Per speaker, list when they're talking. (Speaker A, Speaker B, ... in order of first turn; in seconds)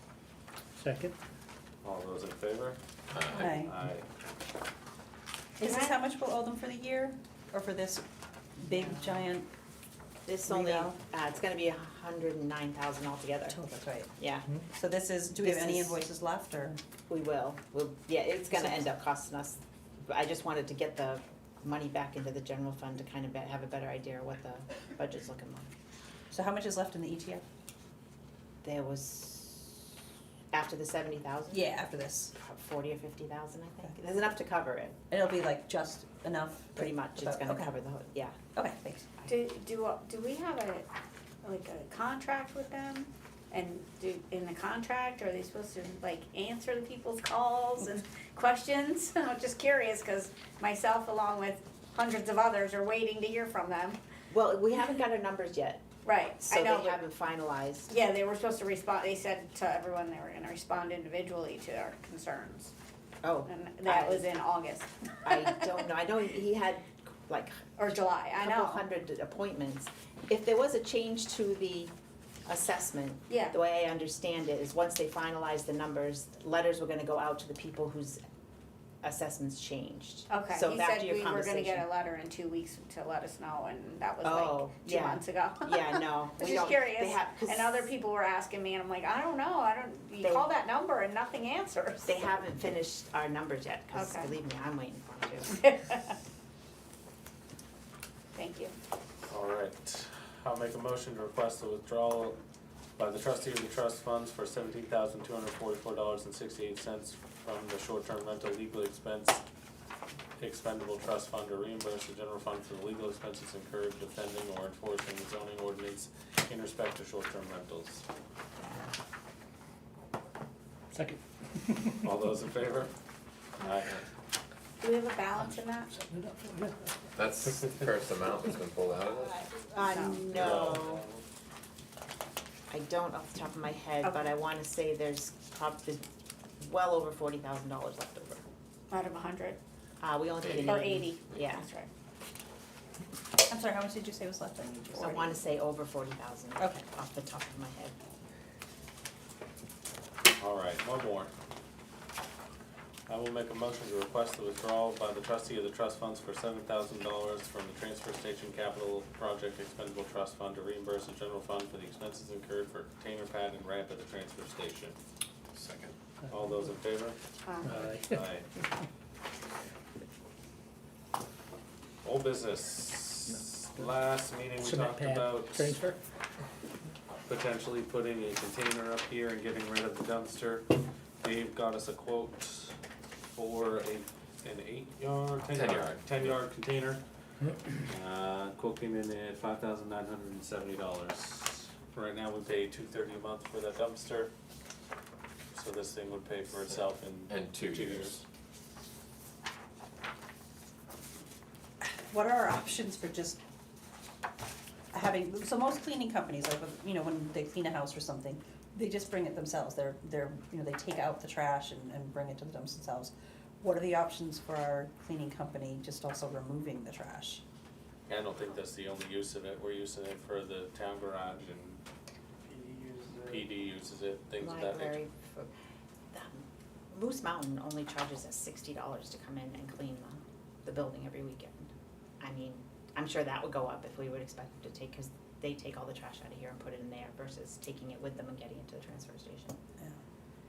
Speaker A: 0.8-1.1, 120.9-122.1, 125.9-126.8, 167.7-168.2, 174.6-176.0
Speaker B: 1.8-4.0, 99.3-102.4, 103.0-109.4, 110.4-118.0, 122.0-122.9, 123.6-124.0, 130.3-131.2, 150.4-151.3, 153.1-165.0, 165.5-168.5, 172.0-175.8, 177.3-180.7, 181.2-182.7, 183.3-187.0, 187.8-194.3, 195.5-198.2, 218.1-221.8, 223.2-225.0
Speaker C: 3.1-3.5, 127.2-129.4, 130.3-130.7, 140.4-141.2, 185.5-186.3, 197.3-198.2
Speaker D: 3.4-3.7, 5.6-8.0, 8.6-9.5, 10.4-11.0, 13.5-14.1, 14.7-16.8, 18.5-18.8, 26.3-27.4, 31.5-32.3, 35.1-37.7, 38.5-39.1, 143.4-145.4, 201.8-203.4, 204.9-217.4
Speaker E: 5.6-6.0, 39.2-40.9, 41.4-54.0, 56.0-57.0, 57.9-62.7, 63.4-65.8, 67.8-68.8, 73.3-73.6, 80.3-92.1, 93.9-94.3, 95.5-96.1, 98.3-98.7, 124.8-125.9, 129.8-130.2, 138.9-139.6, 140.6-141.9, 167.4-167.7
Speaker F: 8.6-9.3, 10.2-13.6, 14.2-14.5, 15.3-16.0, 17.1-25.7, 28.6-29.9, 30.5-31.8, 32.3-35.0, 36.8-38.4, 54.3-55.8, 56.4-57.9, 63.2-64.2, 65.2-67.8, 68.4-71.9, 72.5-78.2, 79.0-81.9, 84.2-87.9, 90.2-90.5, 92.0-95.6, 129.4-131.0, 132.7-136.0, 136.6-138.4, 140.0-141.6, 145.0-147.9, 224.4-225.5, 226.1-239.6